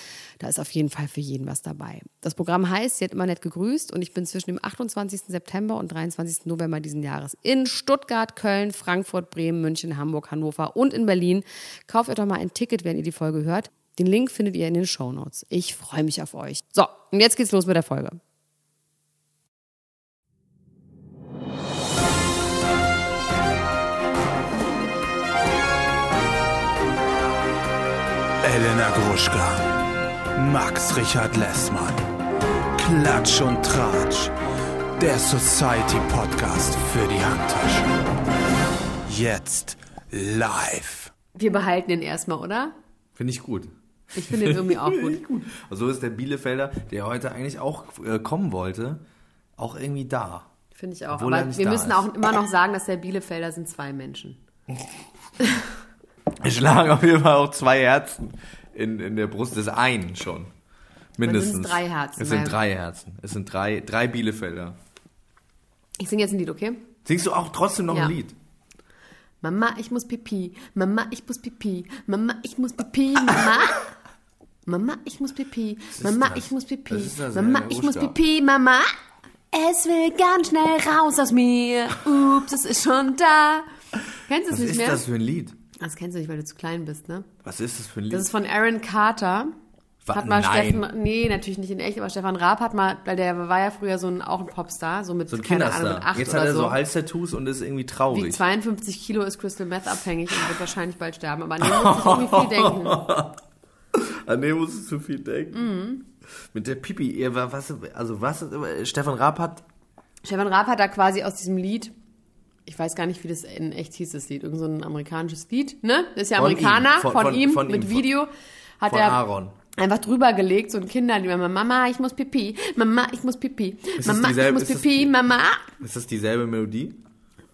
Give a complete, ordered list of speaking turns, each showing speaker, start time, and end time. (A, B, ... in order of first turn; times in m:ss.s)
0:00.4-0:18.2 A
0:28.4-0:29.7 B
0:30.4-0:32.0 B
0:32.8-0:34.3 B
0:35.0-0:38.0 B
0:39.1-0:41.1 B
0:41.4-0:42.7 A
0:43.2-0:49.0 C
0:44.1-0:45.2 A
0:49.6-0:50.5 C
0:50.7-0:54.4 A
0:51.1-0:52.1 C
0:55.4-0:55.7 A
0:56.4-1:00.5 C
1:01.2-1:04.8 C
1:01.2-1:02.6 A
1:06.0-1:06.8 A
1:07.0-1:08.4 C
1:07.9-1:08.2 A
1:09.4-1:13.9 A
1:14.7-1:18.9 A
1:16.0-1:18.2 C
1:19.5-1:23.7 A
1:24.3-1:25.0 A
1:24.5-1:25.6 C
1:25.8-1:27.3 A
1:27.4-1:28.3 C
1:28.1-1:29.5 A
1:30.0-1:30.8 C
1:30.1-1:36.8 A
1:35.3-1:38.4 C
1:38.1-1:43.0 A
1:41.6-1:43.4 C
1:43.9-1:45.6 C
1:45.5-1:46.1 A
1:46.5-1:49.6 C
1:50.2-1:51.9 A
1:52.7-2:05.8 A
1:56.4-1:58.1 C
1:58.9-1:59.6 C
2:04.0-2:05.1 C
2:05.8-2:07.0 C